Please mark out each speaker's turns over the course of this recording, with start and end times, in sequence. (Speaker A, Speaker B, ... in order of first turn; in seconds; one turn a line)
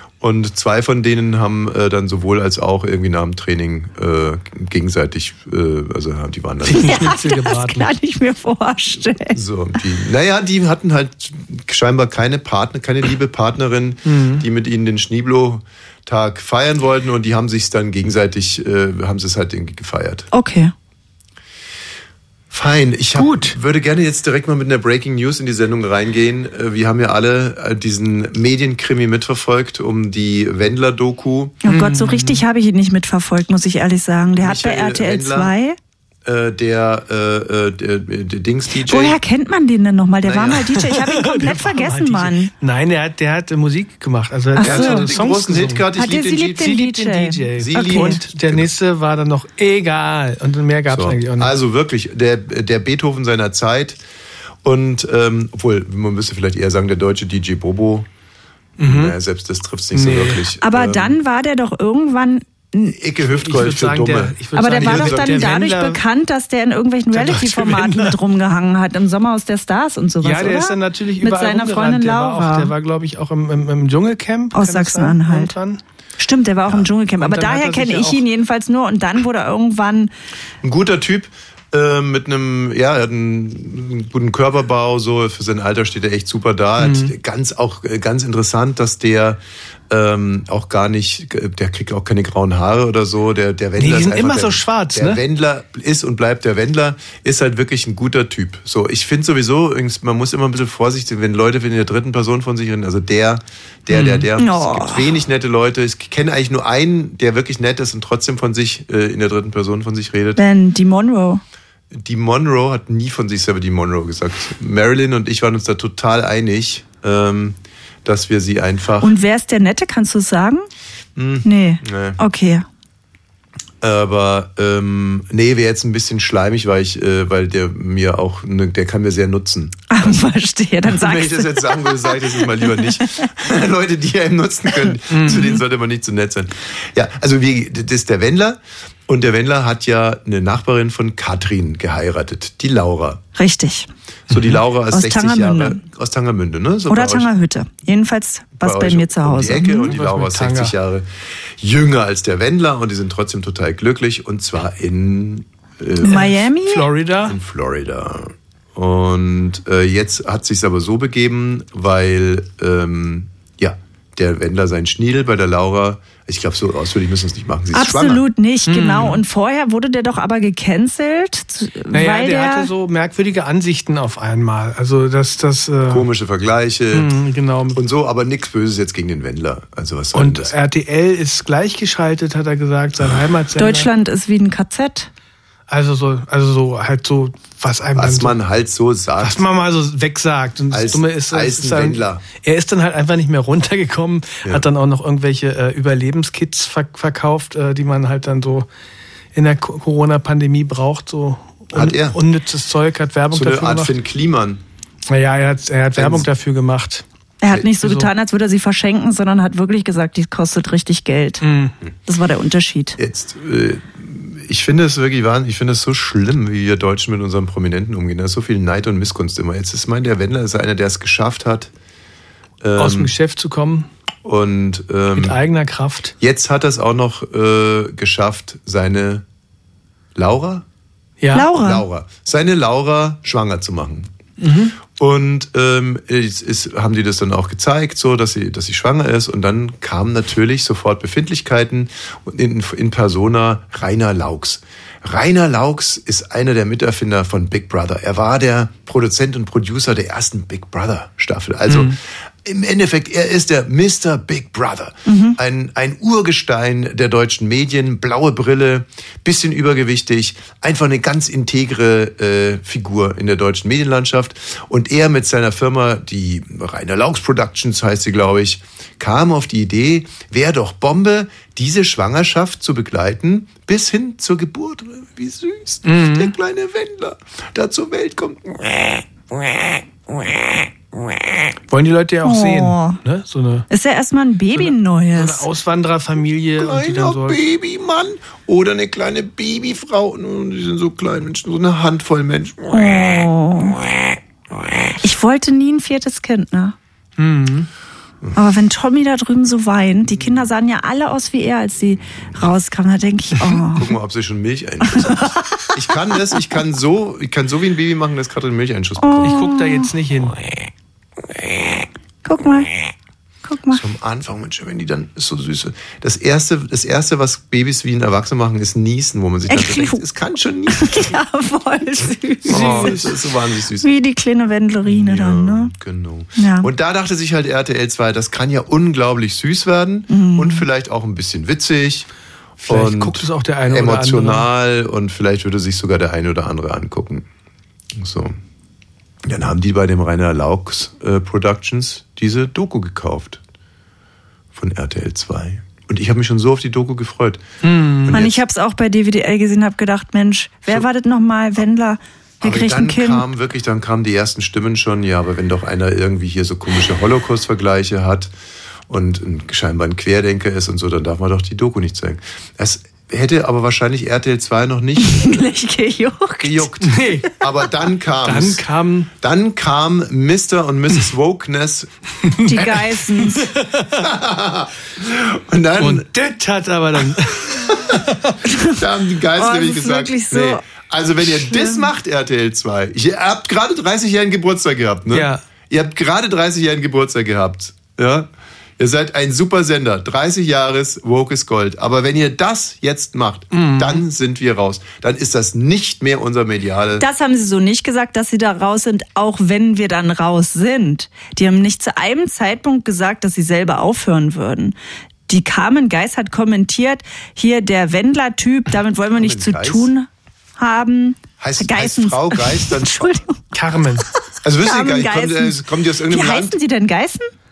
Speaker A: 0.2-7.1
Speaker B: 6.6-7.9
Speaker C: 6.7-9.4
Speaker A: 9.3-20.3
Speaker B: 14.1-14.4
Speaker C: 20.3-20.7
Speaker A: 22.5-31.6
Speaker B: 23.1-23.6
Speaker C: 31.6-35.8
Speaker B: 31.6-32.4
Speaker A: 34.4-35.5
Speaker A: 36.2-39.2
Speaker C: 38.9-42.5
Speaker A: 40.2-40.7
Speaker B: 40.7-45.9
Speaker C: 44.5-45.1
Speaker A: 44.6-46.8
Speaker C: 46.0-48.2
Speaker B: 46.5-51.5
Speaker A: 47.5-48.7
Speaker A: 50.9-54.0
Speaker A: 54.6-58.1
Speaker B: 58.8-59.1
Speaker A: 58.8-61.2
Speaker B: 59.9-60.4
Speaker C: 60.6-63.0
Speaker A: 62.9-65.6
Speaker B: 63.4-66.0
Speaker C: 64.5-72.7
Speaker B: 67.1-68.2
Speaker B: 70.2-75.8
Speaker C: 74.5-75.5
Speaker C: 76.2-80.1
Speaker B: 77.2-78.2
Speaker A: 80.6-110.4
Speaker B: 86.8-87.1
Speaker B: 93.8-95.2
Speaker B: 103.9-104.3
Speaker C: 104.4-105.1
Speaker C: 110.3-111.4
Speaker A: 111.9-119.2
Speaker C: 119.0-120.7
Speaker A: 121.2-122.2
Speaker C: 121.4-122.6
Speaker A: 123.8-130.2
Speaker C: 129.9-133.3
Speaker A: 130.8-143.2
Speaker B: 135.1-135.6
Speaker C: 143.3-143.9
Speaker A: 144.3-147.3
Speaker B: 144.3-144.6
Speaker C: 144.9-145.8
Speaker C: 146.9-149.9
Speaker A: 148.6-151.1
Speaker B: 149.8-150.7
Speaker A: 151.6-156.4
Speaker C: 156.0-156.9
Speaker B: 156.1-157.4
Speaker A: 157.2-168.2
Speaker C: 167.7-172.7
Speaker B: 168.7-169.2
Speaker B: 171.9-176.1
Speaker A: 175.9-177.2
Speaker B: 176.9-177.8
Speaker A: 177.7-180.5
Speaker B: 180.1-183.9
Speaker C: 183.6-185.1
Speaker B: 185.7-188.3
Speaker A: 187.9-189.4
Speaker B: 189.2-198.7
Speaker A: 190.7-192.2
Speaker B: 199.3-203.9
Speaker A: 201.7-202.2
Speaker A: 203.3-204.6
Speaker B: 205.1-207.0
Speaker A: 205.9-206.3
Speaker C: 207.4-211.4
Speaker B: 207.8-208.1
Speaker B: 211.4-211.7
Speaker C: 212.1-213.0
Speaker A: 213.0-221.7
Speaker A: 222.6-223.1
Speaker B: 222.8-223.9
Speaker A: 224.2-225.4
Speaker B: 225.1-226.1
Speaker A: 226.2-229.2
Speaker A: 230.2-230.7
Speaker B: 231.2-231.5
Speaker C: 231.3-231.8
Speaker A: 231.5-234.1
Speaker B: 234.4-234.7
Speaker A: 234.9-280.7
Speaker B: 251.7-251.9
Speaker C: 255.1-255.4
Speaker B: 275.8-276.3
Speaker B: 281.7-283.7
Speaker C: 282.2-283.0
Speaker C: 283.7-285.4
Speaker B: 284.5-287.4
Speaker A: 286.6-293.3
Speaker C: 292.7-293.8
Speaker C: 295.0-296.7
Speaker B: 297.2-297.7
Speaker C: 298.3-303.9
Speaker A: 300.1-300.5
Speaker A: 303.7-309.4
Speaker C: 304.9-305.7
Speaker C: 309.0-309.9
Speaker B: 309.2-310.4
Speaker C: 312.2-312.7
Speaker C: 313.4-313.8
Speaker A: 313.7-321.1
Speaker C: 319.5-320.0
Speaker C: 320.7-323.0
Speaker B: 322.4-323.1
Speaker A: 322.4-323.9
Speaker C: 323.8-325.7
Speaker A: 324.8-332.1
Speaker C: 326.4-326.7
Speaker C: 330.1-330.6
Speaker B: 332.6-334.5
Speaker A: 332.7-337.2
Speaker A: 337.9-338.4
Speaker A: 339.2-343.4
Speaker A: 344.5-347.4
Speaker B: 347.6-348.1
Speaker A: 348.0-348.4
Speaker C: 348.1-353.2
Speaker A: 352.4-358.3
Speaker A: 358.9-365.4
Speaker C: 365.0-366.7
Speaker A: 366.4-368.6
Speaker B: 366.8-367.3
Speaker B: 368.2-369.1
Speaker A: 369.2-371.9
Speaker B: 372.3-374.0
Speaker C: 372.4-373.5
Speaker A: 372.6-372.8
Speaker A: 373.9-376.1
Speaker B: 375.8-378.4
Speaker A: 377.4-378.0
Speaker C: 378.4-378.8
Speaker A: 378.7-397.0
Speaker C: 379.3-380.6
Speaker C: 381.5-381.9
Speaker B: 385.1-385.4
Speaker B: 393.5-394.0
Speaker C: 397.0-404.8
Speaker C: 405.3-413.4
Speaker A: 409.1-409.9
Speaker A: 411.4-413.1
Speaker B: 413.5-414.1
Speaker A: 414.4-416.6
Speaker C: 414.6-417.3